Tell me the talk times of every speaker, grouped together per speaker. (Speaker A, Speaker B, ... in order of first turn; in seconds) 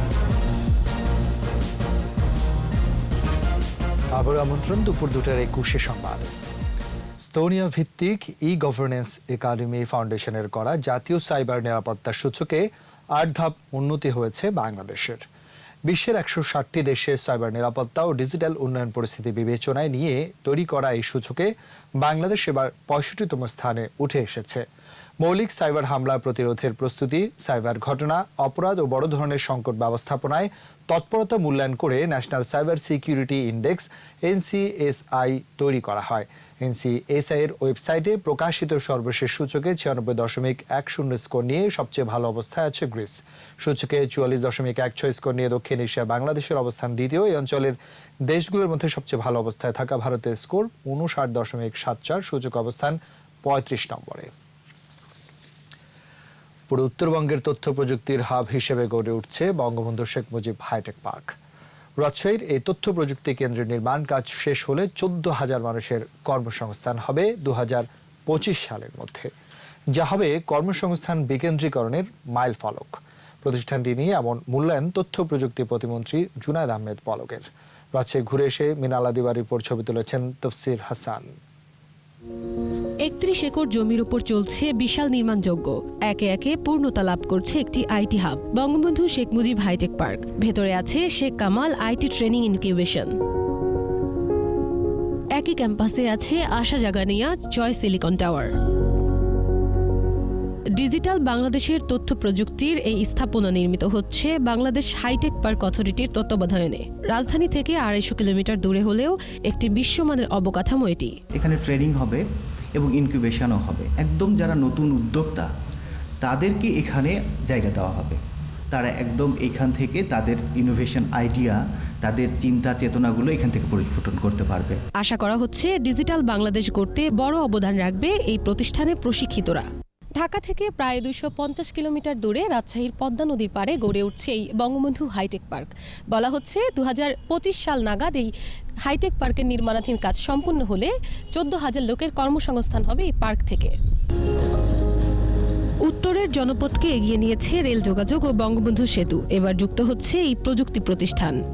Speaker A: 4.2-6.3, 7.2-15.2, 15.9-24.6, 25.2-54.3, 56.7-61.4, 62.0-69.3, 69.9-81.3
Speaker B: 83.1-93.0, 95.4-97.0, 97.6-98.5, 100.8-103.3, 103.9-104.3, 105.2-111.1, 125.0-129.6, 145.9-151.3
Speaker C: 90.6-92.9, 95.7-96.2, 96.8-98.3, 101.2-109.0, 109.7-111.0, 126.0-128.9, 130.2-138.3, 138.8-143.7
Speaker D: 111.3-112.2, 112.8-115.5, 116.2-118.2, 118.7-124.8